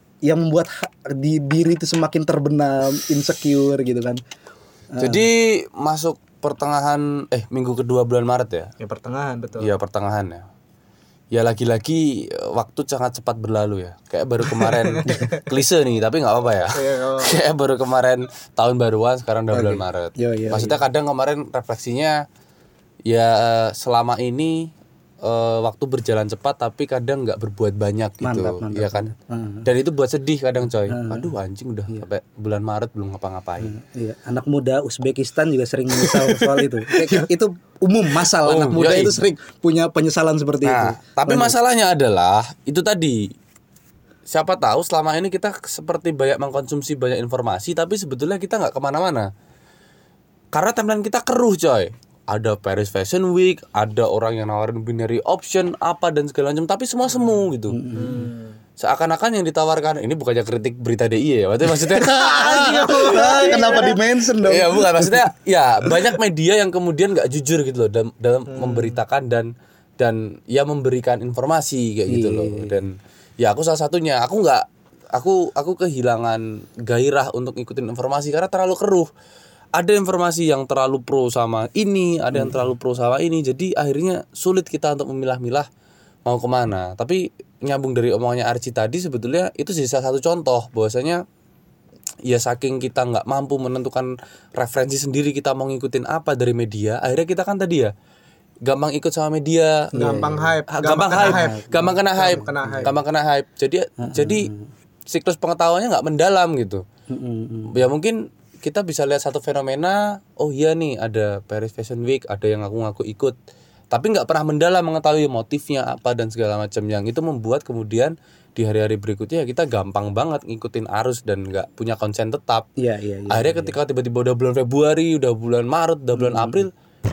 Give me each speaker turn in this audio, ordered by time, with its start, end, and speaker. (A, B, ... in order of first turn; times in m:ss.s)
0:00.2-0:04.2 A
0:04.9-0:05.2 A
0:05.0-0:08.7 B
0:08.8-0:09.7 C
0:09.6-0:10.4 B
0:11.3-0:22.2 B
0:14.6-0:15.5 C
0:16.7-0:17.4 C
0:19.5-0:20.8 A
0:23.1-0:29.1 B
0:28.2-0:29.6 A
0:29.6-0:33.8 B
0:30.9-0:31.3 A
0:33.6-0:41.6 A
0:35.9-0:37.3 B
0:38.3-0:39.2 B
0:40.6-0:43.3 B
0:44.3-0:49.3 B
0:50.5-0:57.8 B
0:57.7-0:58.3 A
0:58.0-0:58.6 C
0:58.8-1:03.4 B
1:01.8-1:05.2 A
1:02.2-1:04.0 C
1:04.4-1:19.1 B
1:08.5-1:09.0 C
1:12.1-1:12.8 A
1:19.8-1:25.7 B
1:22.3-1:22.6 A
1:26.3-1:31.2 B
1:32.3-1:37.9 B
1:38.6-1:39.9 B
1:39.9-1:40.6 A
1:39.9-1:43.0 C
1:40.7-1:44.5 B
1:41.2-1:42.9 A
1:44.0-1:44.7 A
1:45.1-1:46.8 B
1:47.1-1:47.7 A
1:47.7-1:53.4 B
1:53.9-2:02.7 B
2:02.8-2:03.8 A
2:03.3-2:06.7 B
2:06.2-2:06.6 A